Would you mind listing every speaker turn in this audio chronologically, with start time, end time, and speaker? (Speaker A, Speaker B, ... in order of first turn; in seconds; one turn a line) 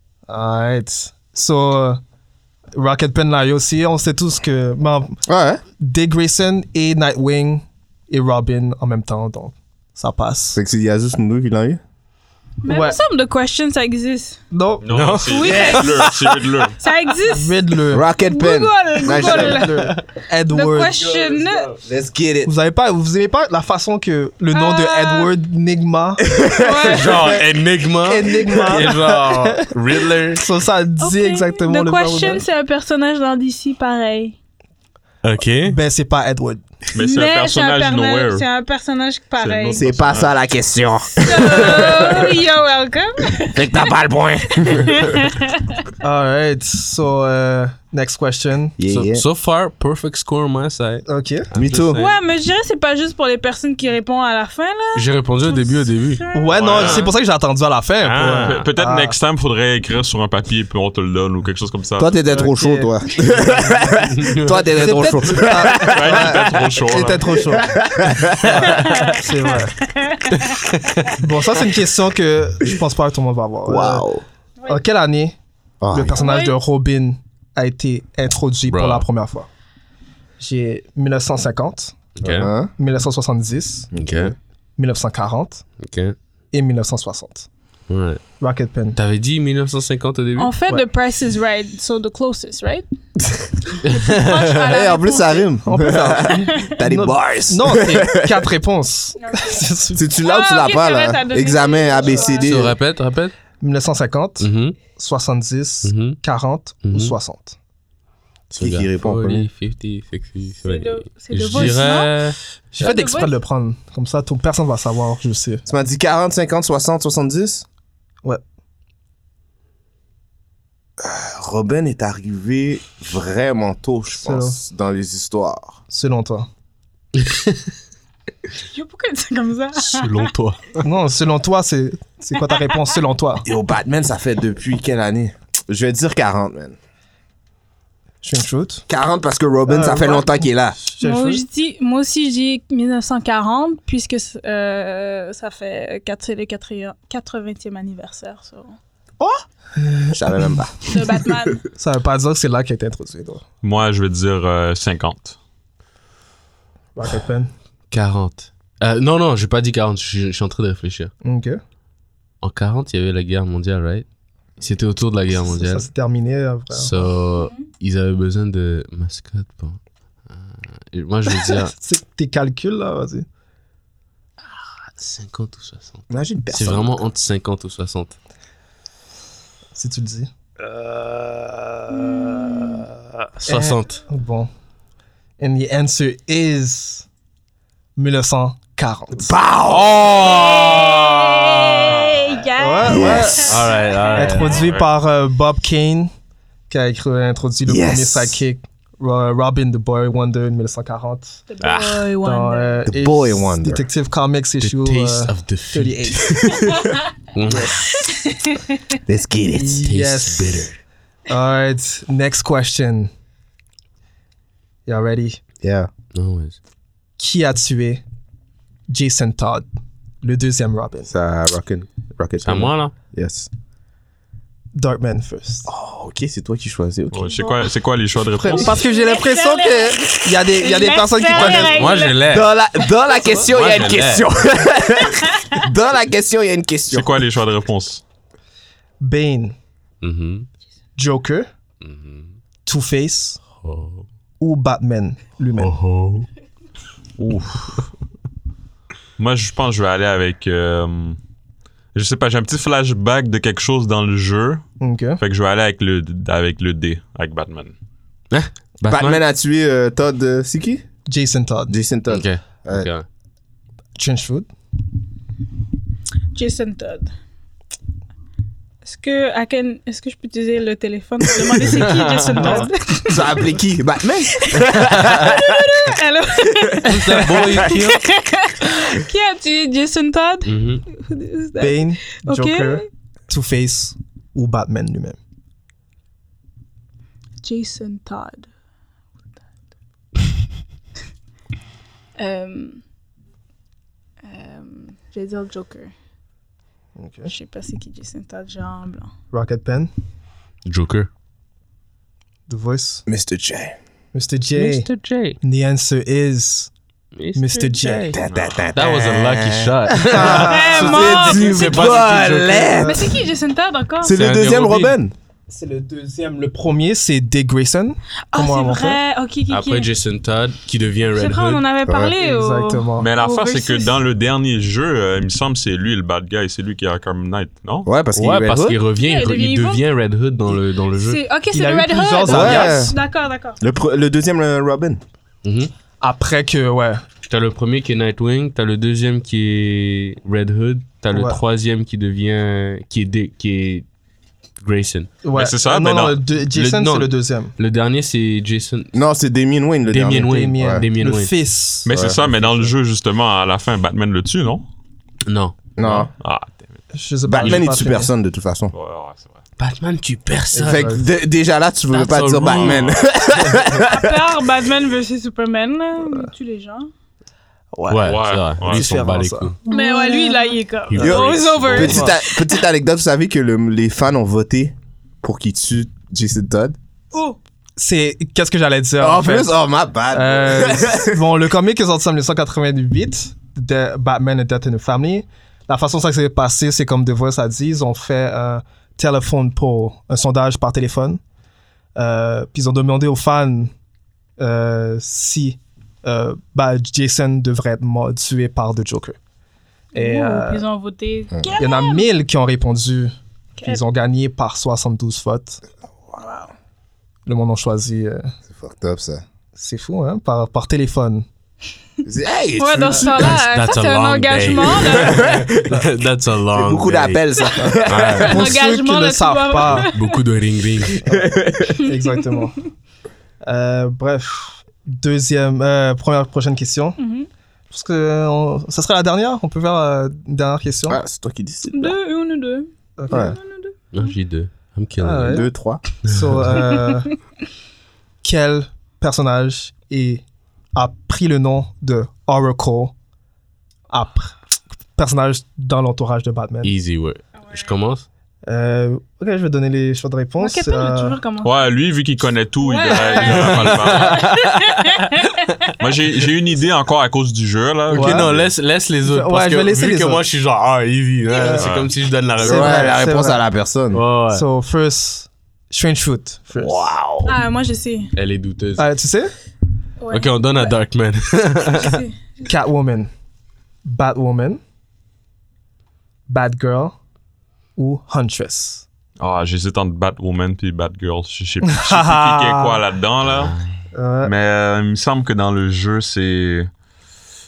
Speaker A: 0.3-2.0
Speaker A: 2.7-5.2
Speaker B: 5.3-5.6
Speaker A: 5.8-10.6
Speaker B: 10.5-11.8
Speaker C: 12.6-14.4
Speaker A: 12.7-13.0
Speaker A: 14.5-14.9
Speaker D: 14.8-16.8
Speaker E: 14.9-16.3
Speaker C: 15.3-16.1
Speaker C: 16.8-17.5
Speaker A: 17.2-18.0
Speaker B: 17.9-19.7
Speaker C: 18.2-19.9
Speaker A: 19.1-21.0
Speaker E: 19.9-20.2
Speaker C: 20.5-21.7
Speaker E: 21.0-21.8
Speaker B: 21.8-22.5
Speaker A: 22.4-27.4
Speaker C: 24.5-25.3
Speaker B: 26.2-27.3
Speaker C: 26.5-27.4
Speaker E: 26.9-30.5
Speaker A: 28.0-32.4
Speaker C: 31.0-34.4
Speaker E: 35.2-35.8
Speaker A: 35.6-36.6
Speaker D: 36.9-38.5
Speaker C: 37.0-39.8
Speaker D: 39.4-40.4
Speaker B: 39.7-42.3
Speaker C: 41.2-43.9
Speaker B: 43.5-45.1
Speaker C: 44.5-45.8
Speaker A: 46.0-48.8
Speaker B: 48.8-49.2
Speaker E: 48.9-52.2
Speaker A: 51.1-51.5
Speaker B: 51.5-52.0
Speaker C: 52.0-57.1
Speaker E: 54.9-56.2
Speaker A: 56.3-59.1
Speaker D: 56.5-57.1
Speaker E: 58.0-58.6
Speaker D: 58.2-62.2
Speaker B: 62.0-66.5
Speaker A: 62.2-63.8
Speaker E: 64.1-64.7
Speaker A: 64.7-67.8
Speaker D: 65.7-67.5
Speaker B: 67.5-68.7
Speaker A: 68.4-69.8
Speaker C: 68.7-71.1
Speaker E: 70.3-71.2
Speaker A: 71.2-74.0
Speaker B: 73.6-74.2
Speaker A: 74.7-75.3
Speaker B: 75.8-76.2
Speaker A: 75.9-79.5
Speaker C: 76.2-76.6
Speaker E: 78.7-79.1
Speaker A: 80.4-82.1
Speaker E: 82.2-82.5
Speaker B: 82.2-82.7
Speaker A: 82.7-83.9
Speaker B: 83.9-84.3
Speaker E: 84.0-84.3
Speaker A: 84.8-85.7
Speaker E: 85.8-86.2
Speaker A: 86.5-87.5
Speaker E: 87.9-88.2
Speaker A: 88.4-89.0
Speaker E: 88.9-90.6
Speaker C: 90.4-92.8
Speaker C: 93.8-95.5
Speaker E: 93.8-94.5
Speaker B: 94.6-98.5
Speaker A: 95.7-100.0
Speaker C: 96.2-96.7
Speaker C: 99.2-99.6
Speaker B: 99.9-102.8
Speaker C: 100.2-102.6
Speaker E: 102.4-103.3
Speaker A: 103.6-107.5
Speaker E: 104.4-104.8
Speaker E: 105.8-106.2
Speaker E: 106.8-107.2
Speaker E: 108.5-112.3
Speaker B: 108.6-109.5
Speaker C: 110.6-112.2
Speaker A: 112.7-115.6
Speaker C: 112.8-113.3
Speaker B: 115.7-117.7
Speaker B: 121.0-125.8
Speaker A: 124.2-124.6
Speaker A: 125.9-126.5
Speaker E: 127.1-127.7
Speaker C: 128.6-130.3
Speaker E: 129.8-130.8
Speaker A: 130.8-133.4
Speaker B: 133.4-136.8
Speaker A: 138.2-138.8
Speaker B: 138.9-140.8
Speaker A: 139.7-141.4
Speaker C: 141.0-148.8
Speaker A: 149.2-150.7
Speaker B: 150.1-151.0
Speaker C: 150.9-151.6
Speaker A: 151.7-153.4
Speaker D: 153.6-155.4
Speaker A: 156.9-157.5
Speaker E: 157.9-161.1
Speaker A: 161.2-161.6
Speaker E: 162.4-164.0
Speaker E: 164.6-165.9
Speaker A: 165.4-167.1
Speaker E: 166.7-171.7
Speaker C: 167.4-167.6
Speaker A: 171.3-173.2
Speaker E: 174.4-178.2
Speaker B: 176.1-177.0
Speaker A: 179.7-180.3
Speaker E: 180.6-181.6
Speaker A: 181.8-182.8
Speaker C: 181.9-182.8
Speaker E: 183.3-184.0
Speaker A: 183.5-184.5
Speaker A: 185.4-187.1
Speaker A: 187.9-189.3
Speaker B: 189.2-190.8
Speaker E: 189.7-191.0
Speaker C: 190.1-194.6
Speaker A: 192.6-196.1
Speaker B: 192.8-193.5
Speaker E: 193.4-194.7
Speaker D: 194.5-194.9
Speaker A: 196.7-201.4
Speaker B: 197.7-198.4
Speaker C: 201.5-202.8
Speaker D: 201.6-202.0
Speaker A: 202.2-206.9
Speaker B: 202.8-203.8
Speaker E: 204.6-206.5
Speaker E: 207.3-208.0
Speaker A: 207.5-208.0
Speaker B: 209.0-209.9
Speaker A: 209.5-210.7
Speaker E: 209.8-210.8
Speaker A: 211.3-213.1
Speaker A: 214.8-215.4
Speaker B: 215.6-215.9
Speaker E: 216.1-216.6
Speaker A: 217.2-218.0
Speaker A: 218.9-219.7
Speaker A: 220.2-221.1
Speaker B: 221.1-223.5
Speaker E: 222.4-222.9
Speaker A: 224.7-225.7
Speaker B: 225.7-227.4
Speaker D: 227.1-228.8
Speaker A: 228.4-232.0
Speaker C: 228.5-232.3
Speaker E: 231.4-232.5
Speaker B: 232.3-237.2
Speaker E: 233.3-234.3
Speaker D: 236.9-238.0
Speaker A: 239.0-239.6
Speaker E: 240.0-240.5
Speaker A: 241.0-241.5
Speaker E: 241.8-242.3
Speaker A: 242.7-243.4
Speaker E: 243.5-244.0
Speaker A: 244.4-245.8
Speaker E: 245.6-246.3
Speaker D: 247.2-247.9
Speaker D: 249.2-251.2
Speaker D: 251.9-254.6
Speaker A: 254.8-255.2
Speaker D: 255.2-257.7
Speaker E: 258.3-259.2
Speaker B: 258.9-260.9
Speaker A: 261.1-261.8
Speaker B: 261.7-262.9
Speaker E: 262.1-263.0
Speaker A: 264.0-264.5
Speaker C: 266.3-267.1
Speaker C: 268.8-273.5
Speaker E: 271.7-272.7
Speaker A: 272.4-272.7
Speaker B: 273.1-275.8
Speaker C: 274.3-282.9
Speaker E: 276.8-278.0
Speaker E: 280.4-280.8
Speaker A: 281.6-285.2
Speaker C: 287.4-288.5
Speaker C: 292.2-292.8
Speaker C: 294.2-295.9
Speaker A: 297.0-297.3
Speaker C: 297.2-299.1
Speaker A: 299.3-299.9
Speaker E: 300.6-301.1
Speaker A: 302.5-303.0
Speaker B: 303.1-303.8
Speaker A: 304.1-304.9
Speaker E: 304.5-305.4
Speaker A: 305.4-306.7
Speaker E: 307.1-308.2
Speaker A: 307.3-308.2
Speaker B: 308.1-313.0
Speaker D: 308.3-308.7
Speaker E: 308.7-312.8
Speaker A: 310.1-311.1
Speaker C: 310.2-311.9
Speaker A: 312.6-313.1
Speaker C: 312.8-314.1
Speaker B: 314.0-315.1
Speaker E: 314.1-315.0
Speaker A: 315.5-319.0
Speaker C: 318.3-319.9
Speaker E: 319.5-321.7
Speaker C: 321.1-323.9
Speaker B: 321.9-322.1
Speaker A: 322.2-323.1
Speaker D: 323.0-327.9
Speaker B: 327.8-328.8
Speaker E: 328.1-331.2
Speaker C: 329.0-329.9
Speaker C: 331.0-333.6
Speaker A: 331.5-332.9
Speaker B: 332.2-332.9
Speaker B: 333.6-335.0
Speaker E: 335.4-335.7
Speaker A: 336.0-337.1
Speaker E: 337.3-343.9
Speaker A: 341.1-341.4
Speaker E: 344.6-345.1
Speaker A: 345.2-347.5
Speaker D: 345.3-346.2
Speaker E: 346.5-348.9
Speaker B: 348.9-350.9
Speaker E: 349.9-351.3
Speaker A: 350.2-352.7
Speaker D: 351.8-354.6
Speaker B: 351.9-352.2
Speaker E: 355.2-356.0
Speaker B: 355.8-356.1
Speaker D: 355.8-356.7
Speaker A: 356.9-358.1
Speaker B: 357.2-358.7
Speaker E: 357.4-357.8
Speaker D: 358.7-359.4
Speaker E: 359.6-361.0
Speaker A: 360.5-361.0
Speaker B: 360.6-364.3
Speaker E: 361.9-362.9
Speaker D: 362.5-363.0
Speaker C: 363.8-366.9
Speaker A: 367.7-370.5
Speaker E: 367.9-369.6
Speaker D: 368.0-368.9
Speaker C: 369.7-372.6
Speaker E: 370.9-372.0
Speaker B: 371.0-376.8
Speaker A: 371.8-372.1
Speaker C: 377.1-377.4
Speaker A: 377.8-379.5
Speaker B: 379.0-381.2
Speaker A: 380.1-391.2
Speaker A: 391.9-393.7
Speaker A: 394.4-399.2
Speaker C: 399.9-402.1
Speaker A: 399.9-400.6
Speaker A: 401.6-403.1
Speaker A: 403.6-405.6
Speaker C: 406.2-406.5
Speaker A: 407.2-408.3
Speaker B: 408.5-409.2
Speaker A: 409.6-411.2
Speaker B: 412.0-413.4
Speaker C: 412.6-415.4
Speaker E: 413.2-417.2
Speaker B: 414.9-415.9
Speaker B: 416.5-418.3
Speaker A: 417.6-419.9
Speaker E: 417.9-418.5
Speaker C: 418.1-420.2
Speaker E: 419.7-421.1
Speaker A: 421.1-422.6
Speaker B: 421.1-421.7
Speaker C: 421.8-422.4
Speaker A: 423.4-427.0
Speaker C: 427.0-427.3
Speaker A: 427.7-431.0
Speaker B: 430.9-431.9
Speaker C: 431.7-434.1
Speaker A: 433.0-433.3
Speaker B: 433.1-433.4
Speaker E: 433.9-435.4
Speaker A: 435.0-435.5
Speaker B: 435.2-435.8
Speaker E: 436.0-436.8
Speaker A: 436.0-437.2
Speaker A: 438.2-440.2
Speaker A: 440.7-442.9
Speaker A: 443.9-444.4
Speaker A: 444.9-446.7
Speaker E: 446.6-448.1
Speaker A: 448.5-451.2
Speaker C: 450.4-451.7
Speaker D: 451.4-454.3
Speaker C: 452.6-455.7
Speaker E: 452.9-455.3
Speaker D: 455.8-458.5
Speaker E: 457.9-463.0
Speaker A: 457.9-458.3
Speaker A: 459.0-460.2
Speaker A: 461.4-463.4
Speaker D: 461.4-461.9
Speaker B: 462.4-464.0
Speaker E: 463.9-464.4
Speaker A: 464.3-466.9
Speaker B: 466.6-467.3
Speaker C: 467.2-468.1
Speaker E: 468.1-468.9
Speaker A: 468.8-469.3
Speaker C: 470.0-470.7
Speaker E: 470.1-472.0
Speaker C: 471.7-472.5
Speaker A: 472.4-473.1
Speaker A: 473.8-474.6
Speaker A: 476.3-476.9
Speaker A: 477.8-478.8
Speaker D: 479.2-483.6
Speaker A: 481.7-482.8
Speaker E: 483.3-483.8
Speaker A: 483.9-484.3
Speaker D: 484.2-486.7